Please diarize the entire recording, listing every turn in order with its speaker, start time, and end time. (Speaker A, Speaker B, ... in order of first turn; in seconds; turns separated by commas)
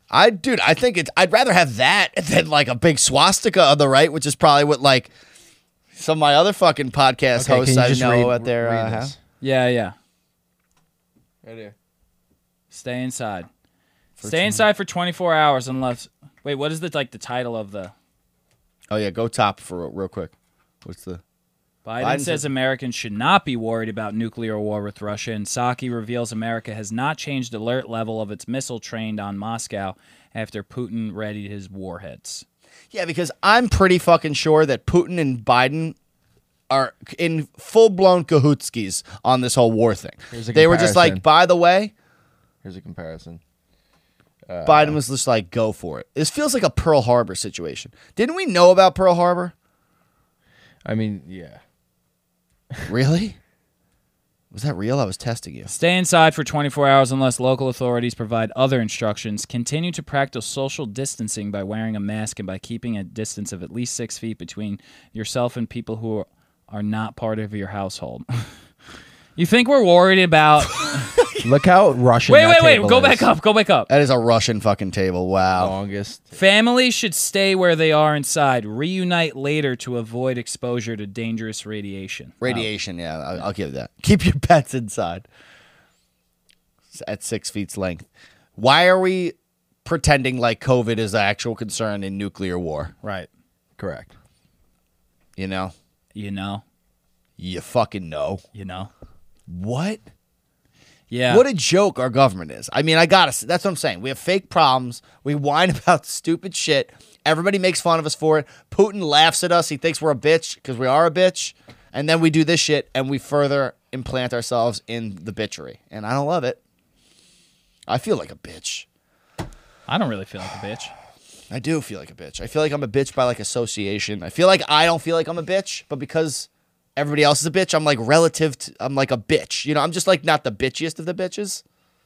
Speaker A: 0.1-5.1, Speaker A: 5.9-9.1, Speaker B: 7.3-9.2, Speaker C: 9.4-9.9, Speaker B: 11.4-11.7, Speaker C: 12.7-13.5, Speaker A: 14.2-14.6, Speaker C: 14.2-17.9, Speaker A: 18.9-20.3, Speaker A: 20.8-21.2, Speaker C: 21.8-32.4, Speaker A: 22.0-22.4, Speaker A: 32.9-36.0, Speaker A: 36.7-41.9, Speaker B: 40.3-41.2, Speaker B: 42.6-43.4, Speaker B: 44.5-45.0, Speaker A: 44.6-49.5, Speaker B: 50.8-51.6, Speaker A: 52.9-53.4, Speaker A: 54.5-55.7, Speaker C: 55.7-68.2, Speaker C: 69.3-71.1, Speaker A: 70.8-71.5, Speaker B: 71.4-73.3, Speaker C: 72.3-73.9, Speaker A: 73.9-75.7, Speaker B: 75.6-76.3, Speaker C: 76.3-82.7, Speaker A: 82.4-85.2, Speaker A: 86.9-88.0, Speaker A: 88.6-92.9, Speaker C: 93.0-93.3, Speaker B: 93.8-94.1, Speaker A: 95.4-95.7, Speaker C: 96.1-96.6, Speaker A: 97.4-98.4, Speaker C: 98.5-98.9, Speaker A: 99.5-100.0, Speaker C: 101.1-101.4, Speaker A: 101.3-116.6, Speaker A: 117.9-118.9, Speaker C: 119.9-120.9, Speaker A: 121.5-131.6